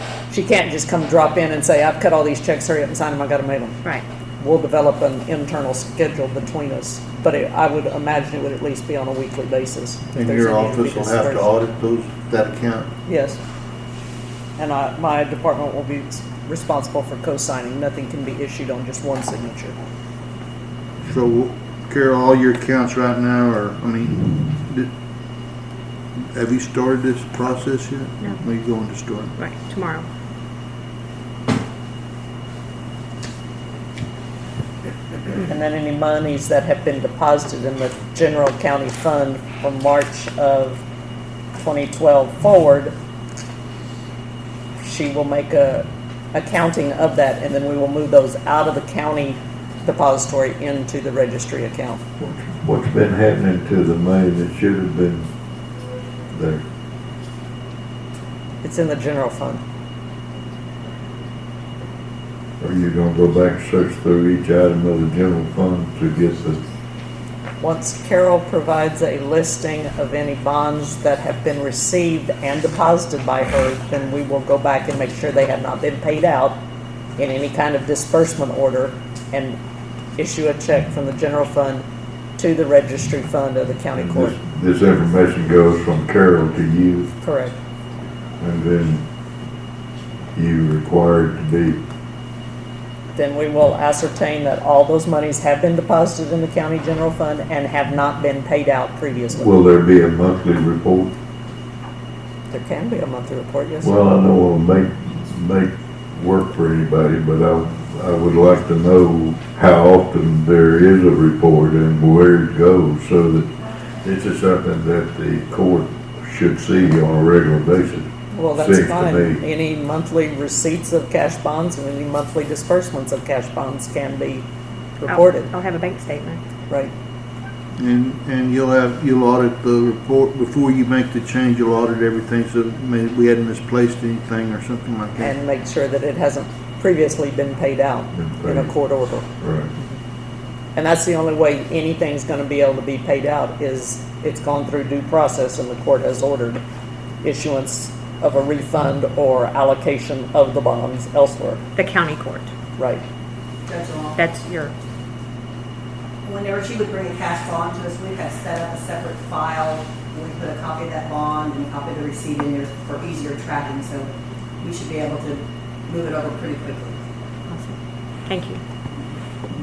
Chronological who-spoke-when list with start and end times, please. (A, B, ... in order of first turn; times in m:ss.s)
0:00.3-0:03.8 A
0:04.4-0:11.5 A
0:10.1-0:12.9 B
0:13.1-0:13.4 A
0:14.6-0:19.8 A
0:21.0-0:24.9 B
0:26.2-0:29.4 B
0:29.4-0:30.0 C
0:35.4-0:40.8 A
0:41.5-0:42.9 A
0:44.8-0:52.0 A
0:52.2-0:55.2 D
0:56.3-0:56.6 D
0:58.6-0:59.6 A
1:02.6-1:06.6 D
1:07.6-1:16.6 A
1:17.2-1:19.6 A
1:20.2-1:21.8 A
1:22.4-1:24.4 A
1:24.0-1:27.1 D
1:27.2-1:27.5 A
1:28.4-1:29.0 D
1:30.4-1:31.8 D
1:33.1-1:39.5 A
1:39.3-1:41.1 D
1:42.5-1:43.9 A
1:43.8-1:59.4 D
1:58.3-2:04.5 A
2:05.0-2:05.5 A
2:05.0-2:06.4 C
2:07.8-2:15.4 B
2:15.2-2:19.3 A
2:18.1-2:18.7 D
2:19.4-2:19.7 D
2:20.8-2:26.6 A
2:27.2-2:31.6 A
2:31.7-2:32.5 C
2:32.8-2:33.0 A
2:33.7-2:34.3 E
2:34.2-2:34.7 C
2:36.2-2:47.0 E
2:47.5-2:47.7 C
2:48.2-2:48.6 C